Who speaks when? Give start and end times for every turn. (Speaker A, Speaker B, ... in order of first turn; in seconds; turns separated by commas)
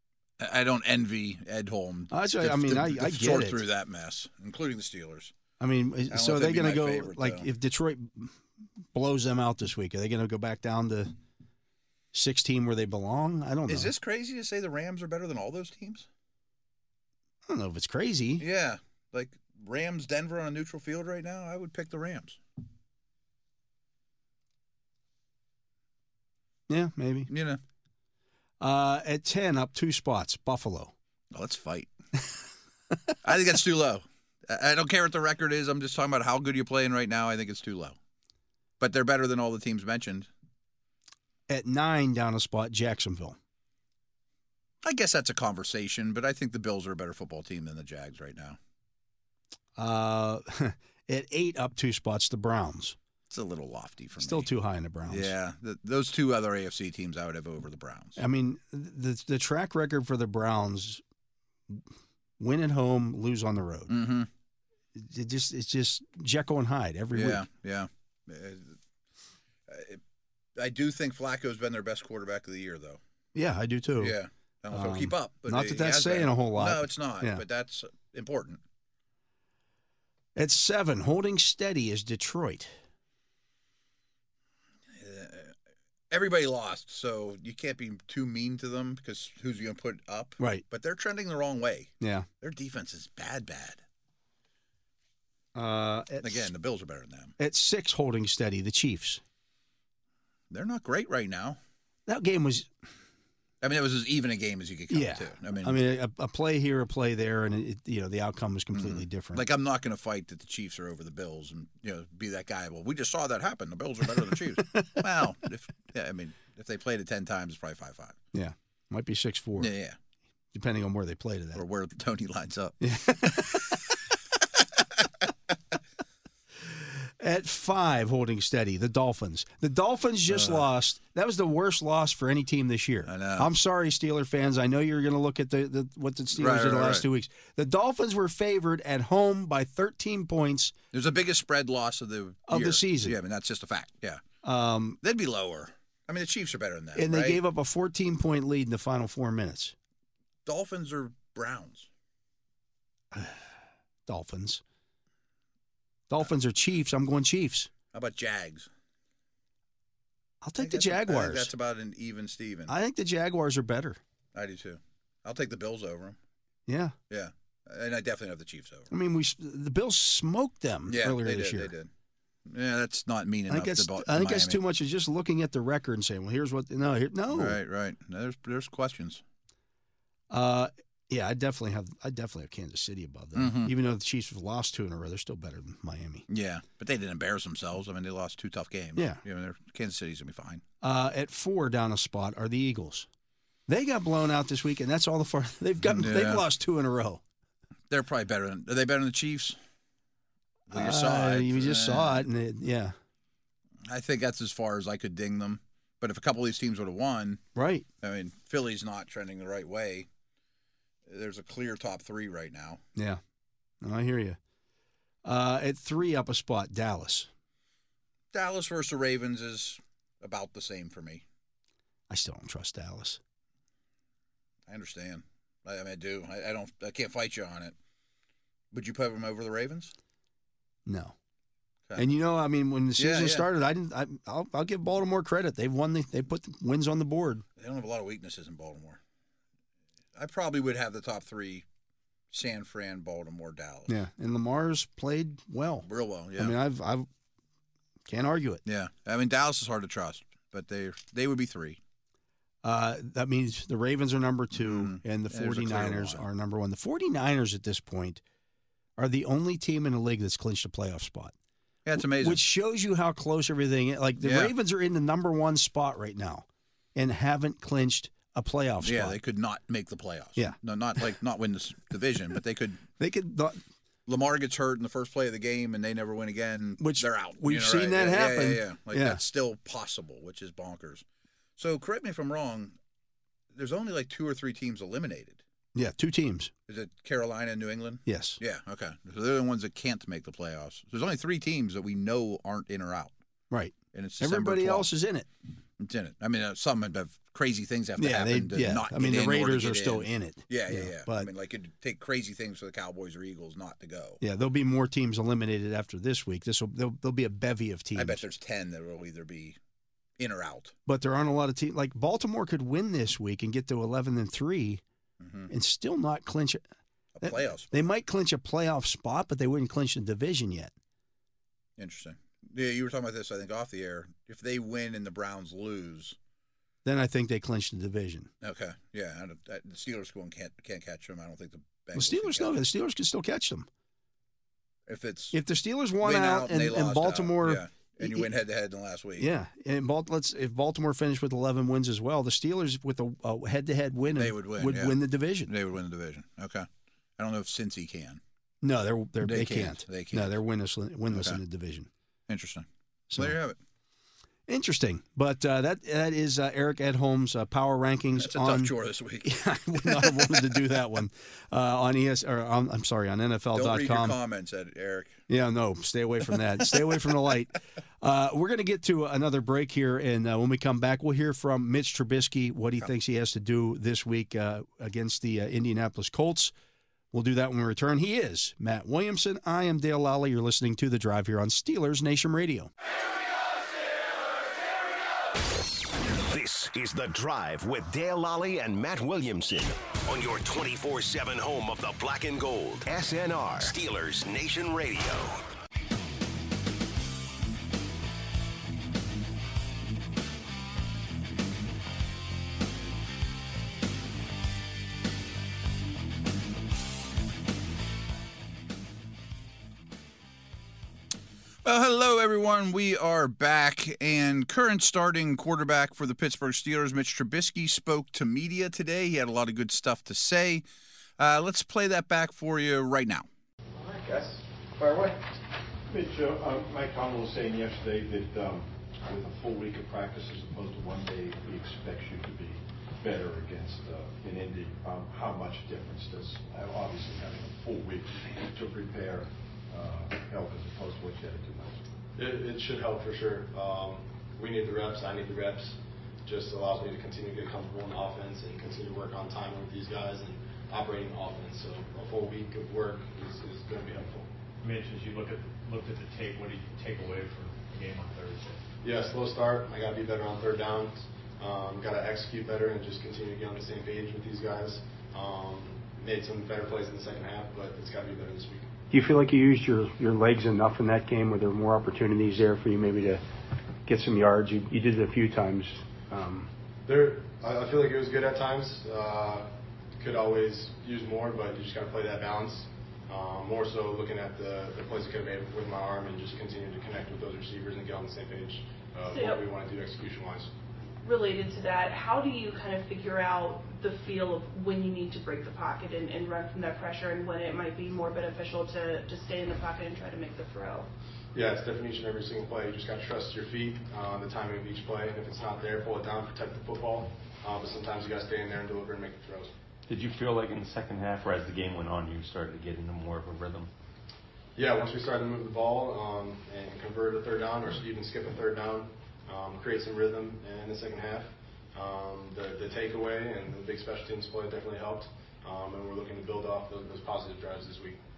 Speaker A: 0.4-5.3, Speaker B: 2.1-3.6, Speaker B: 5.6-8.4, Speaker A: 6.1-7.5, Speaker B: 8.9-11.1, Speaker B: 12.1-13.9, Speaker A: 13.7-16.1, Speaker B: 17.5-18.4, Speaker A: 18.4-22.4, Speaker B: 26.7-27.3, Speaker A: 27.3-27.6, Speaker B: 28.6-30.9, Speaker A: 31.3-31.9, Speaker A: 33.2-38.0, Speaker A: 38.8-40.3, Speaker B: 41.5-43.4, Speaker A: 44.8-48.6, Speaker B: 49.8-53.0, Speaker A: 53.3-54.5, Speaker B: 54.2-55.3, Speaker A: 55.1-58.2, Speaker B: 58.2-61.0, Speaker B: 62.4-64.0, Speaker A: 63.9-64.3, Speaker B: 65.0-67.5, Speaker A: 67.1-68.8, Speaker A: 69.7-70.0, Speaker A: 70.6-73.0, Speaker B: 73.3-74.2, Speaker A: 74.0-78.6, Speaker B: 74.7-77.4, Speaker B: 80.4-82.7, Speaker A: 84.9-85.5, Speaker A: 86.1-93.8, Speaker B: 90.4-90.6, Speaker B: 92.0-92.3, Speaker B: 95.5-96.5, Speaker A: 96.2-97.3, Speaker B: 97.4-99.2, Speaker A: 100.5-101.6, Speaker B: 102.1-102.7, Speaker A: 103.6-105.8, Speaker B: 104.9-109.4, Speaker A: 108.7-118.2, Speaker B: 114.7-115.0, Speaker B: 118.3-119.7, Speaker A: 119.6-120.0, Speaker B: 120.5-121.6, Speaker A: 121.5-123.7, Speaker B: 122.8-123.8, Speaker A: 124.6-125.1, Speaker B: 127.2-140.8, Speaker A: 130.3-130.7, Speaker A: 133.1-133.5, Speaker A: 136.3-137.1, Speaker A: 140.9-144.2, Speaker B: 142.5-143.2, Speaker B: 144.4-145.0, Speaker A: 145.0-147.4, Speaker B: 146.9-149.8, Speaker A: 150.4-151.9, Speaker B: 153.1-153.5, Speaker B: 154.1-154.6, Speaker B: 156.1-157.7, Speaker A: 157.9-158.7, Speaker B: 160.4-161.5, Speaker A: 160.6-162.7, Speaker B: 162.7-164.0, Speaker A: 164.3-166.2, Speaker B: 166.7-166.9, Speaker A: 167.1-168.9, Speaker B: 168.9-171.7, Speaker A: 170.9-171.9, Speaker A: 172.5-174.6, Speaker B: 173.5-177.6, Speaker A: 177.3-179.2, Speaker B: 180.3-186.3, Speaker A: 183.3-183.7, Speaker A: 186.3-190.6, Speaker B: 189.0-189.2, Speaker B: 190.8-193.1, Speaker B: 193.7-197.2, Speaker A: 195.8-196.4, Speaker A: 197.9-199.6, Speaker A: 200.7-202.2, Speaker B: 200.7-202.9, Speaker A: 203.8-207.4, Speaker B: 207.6-207.9, Speaker A: 208.0-210.1, Speaker A: 211.1-212.8, Speaker B: 213.0-213.2, Speaker B: 213.8-214.4, Speaker B: 215.2-217.3, Speaker A: 218.3-221.2, Speaker B: 222.1-223.2, Speaker A: 224.7-227.8, Speaker A: 228.7-229.9, Speaker B: 230.9-231.1, Speaker B: 231.9-237.4, Speaker A: 233.0-233.5, Speaker A: 237.6-239.0, Speaker A: 240.2-241.7, Speaker A: 242.3-243.9, Speaker B: 243.9-247.1, Speaker A: 245.8-246.6, Speaker B: 248.1-248.6, Speaker A: 248.7-251.8, Speaker B: 252.6-258.2, Speaker A: 254.5-256.3, Speaker B: 259.0-261.3, Speaker A: 261.9-262.4, Speaker B: 261.9-269.2, Speaker A: 264.2-264.5, Speaker A: 268.8-272.8, Speaker B: 273.0-273.6, Speaker A: 274.1-281.1, Speaker B: 276.8-279.2, Speaker A: 281.6-282.8, Speaker A: 283.5-285.4, Speaker B: 285.8-286.5, Speaker A: 286.7-293.1, Speaker B: 288.1-288.4, Speaker B: 293.5-295.3, Speaker A: 293.9-294.9, Speaker A: 295.8-304.2, Speaker B: 298.0-301.3, Speaker B: 304.2-308.2, Speaker A: 307.9-309.6, Speaker A: 310.2-310.7, Speaker B: 310.9-314.8, Speaker A: 315.2-315.5, Speaker B: 315.5-316.6, Speaker A: 317.2-317.7, Speaker B: 317.2-320.7, Speaker A: 321.8-326.2, Speaker B: 326.9-328.3, Speaker A: 328.4-332.6, Speaker B: 331.9-333.7, Speaker A: 334.9-335.4, Speaker B: 335.3-338.3, Speaker A: 336.0-339.3, Speaker B: 339.2-345.5, Speaker A: 344.1-348.2, Speaker B: 348.6-351.9, Speaker A: 349.2-350.4, Speaker A: 351.1-351.4, Speaker A: 352.3-353.6, Speaker B: 353.1-353.4, Speaker B: 354.5-364.2, Speaker A: 358.2-360.6, Speaker A: 363.5-365.2, Speaker B: 365.3-376.5, Speaker A: 366.7-367.0, Speaker B: 377.1-382.7, Speaker C: 386.2-395.4, Speaker A: 411.6-420.6, Speaker A: 421.2-423.3, Speaker D: 423.8-425.1, Speaker D: 425.9-441.8, Speaker E: 442.2-454.3, Speaker F: 454.6-458.6, Speaker E: 458.8-468.7, Speaker G: 468.9-473.2, Speaker G: 473.9-476.5, Speaker E: 476.9-479.5, Speaker E: 480.0-490.5, Speaker H: 489.1-489.4, Speaker H: 491.0-500.9, Speaker E: 501.3-509.5, Speaker I: 509.9-513.7, Speaker E: 514.6-528.0